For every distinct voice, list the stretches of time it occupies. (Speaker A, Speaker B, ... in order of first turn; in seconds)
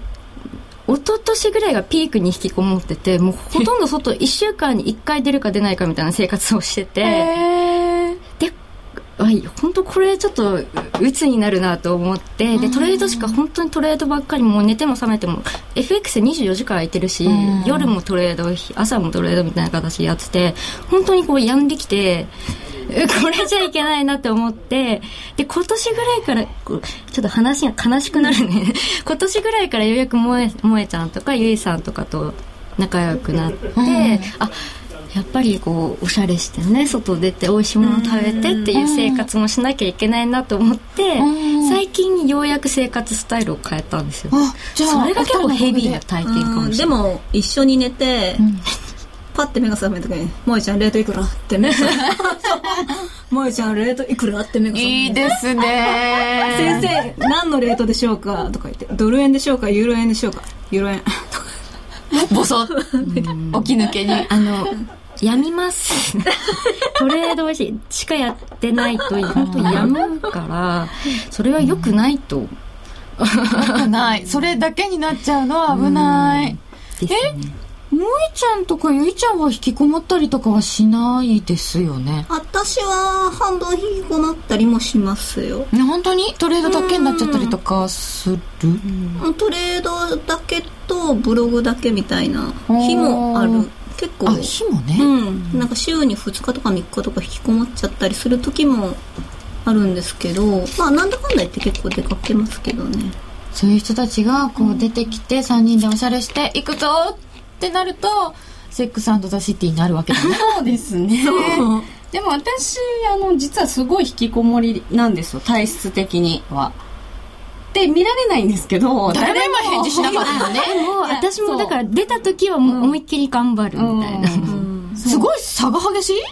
Speaker A: 0.9-7.3, 9.2-22.3, 22.9-34.5, 35.1-46.9, 63.0-63.7, 64.2-72.5, 73.2-73.9, 75.7-77.5, 120.2-124.6
Speaker B: 7.0-8.0, 12.6-13.3, 17.3-17.9, 33.8-34.3, 38.7-39.2, 41.2-41.8, 44.3-46.0, 48.4-48.6, 54.7-56.9, 62.2-62.8, 63.5-64.3, 69.3-69.8, 73.6-76.5, 77.9-82.3, 85.7-88.8, 92.7-93.6, 94.2-95.1, 103.5-110.5, 119.1-120.8, 125.0-126.2
Speaker C: 37.8-38.8, 46.2-48.5, 49.3-61.5, 82.3-85.7, 86.6-87.6, 89.2-99.0, 99.7-103.1, 111.2-111.9, 124.5-125.0
Speaker D: 110.1-116.8, 117.7-121.8, 122.7-123.0, 123.7-125.3